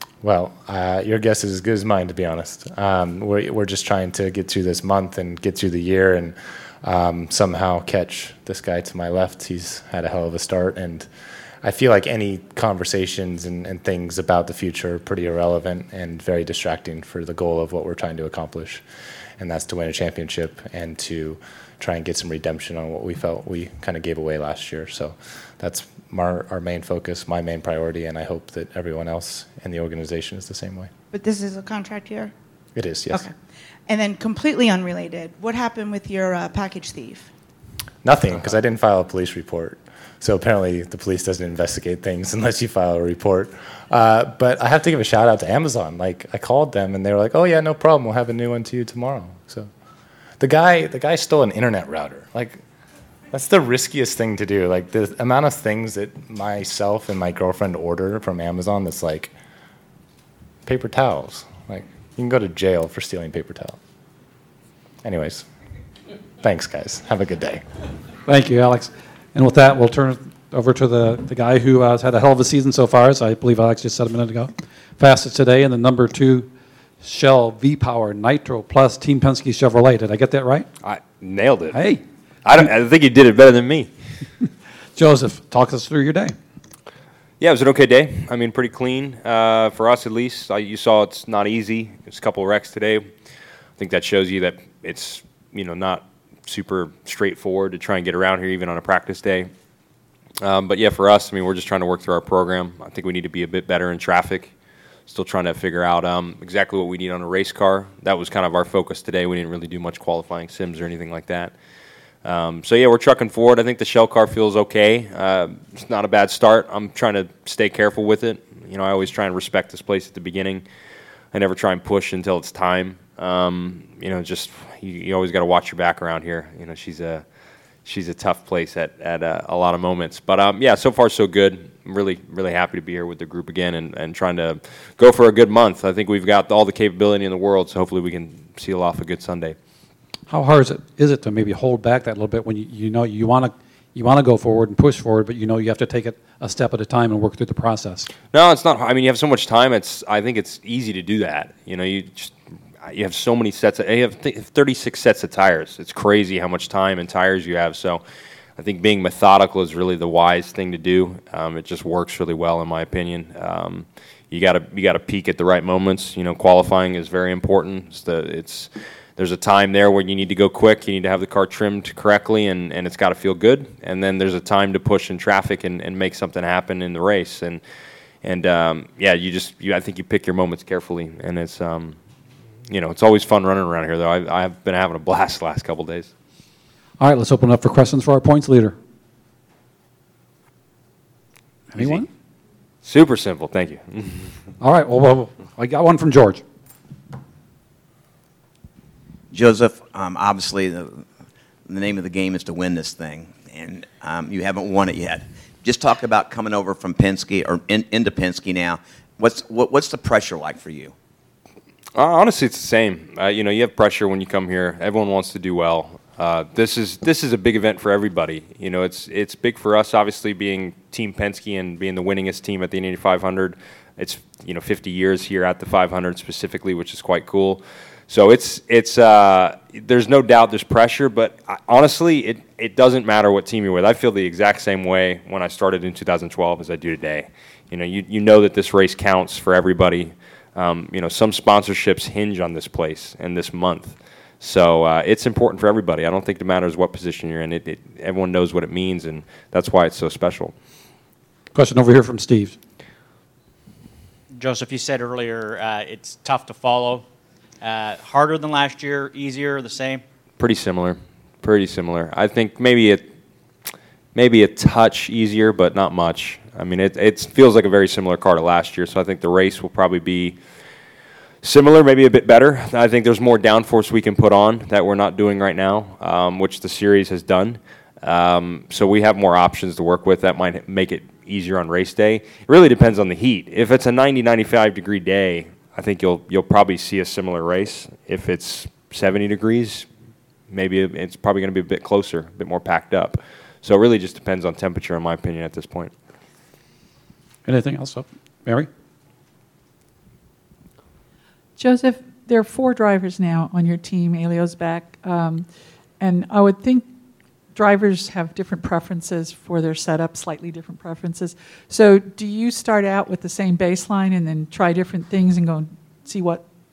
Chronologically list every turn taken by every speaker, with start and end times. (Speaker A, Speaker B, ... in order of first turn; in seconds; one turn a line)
Speaker A: 0.2-11.1
Speaker A: 11.6-18.8
Speaker A: 19.4-30.9
Speaker B: 31.1-32.3
Speaker A: 32.8-33.3
Speaker B: 33.9-37.3
Speaker A: 38.0-49.7
Speaker A: 50.4-52.6
Speaker A: 53.3-59.3
Speaker A: 60.7-63.8
Speaker A: 65.0-65.5
Speaker A: 66.4-67.6
Speaker C: 68.3-76.5
Speaker C: 77.0-80.7
Speaker D: 80.8-81.9
Speaker C: 81.7-82.0
Speaker D: 82.5-83.9
Speaker C: 85.0-86.4
Speaker D: 87.4-93.1
Speaker D: 93.8-99.5
Speaker D: 100.4-104.5
Speaker D: 105.1-111.5
Speaker D: 112.2-120.7
Speaker D: 121.3-127.2
Speaker D: 127.8-139.6
Speaker C: 140.3-148.1
Speaker D: 148.3-158.0
Speaker D: 158.6-177.6
Speaker D: 178.2-182.0
Speaker D: 182.7-186.1
Speaker C: 187.0-188.8
Speaker C: 191.7-192.1
Speaker D: 191.8-192.0
Speaker D: 192.8-194.4
Speaker C: 194.6-196.4
Speaker E: 199.3-201.1
Speaker E: 201.7-210.9
Speaker D: 211.9-250.5
Speaker C: 251.5-252.6
Speaker F: 254.3-257.1
Speaker F: 257.6-260.0
Speaker D: 260.4-263.1
Speaker D: 264.1-270.4
Speaker D: 271.4-289.9
Speaker D: 290.5-295.9
Speaker C: 297.4-298.7
Speaker G: 301.6-305.5
Speaker G: 306.0-306.9
Speaker G: 307.5-316.4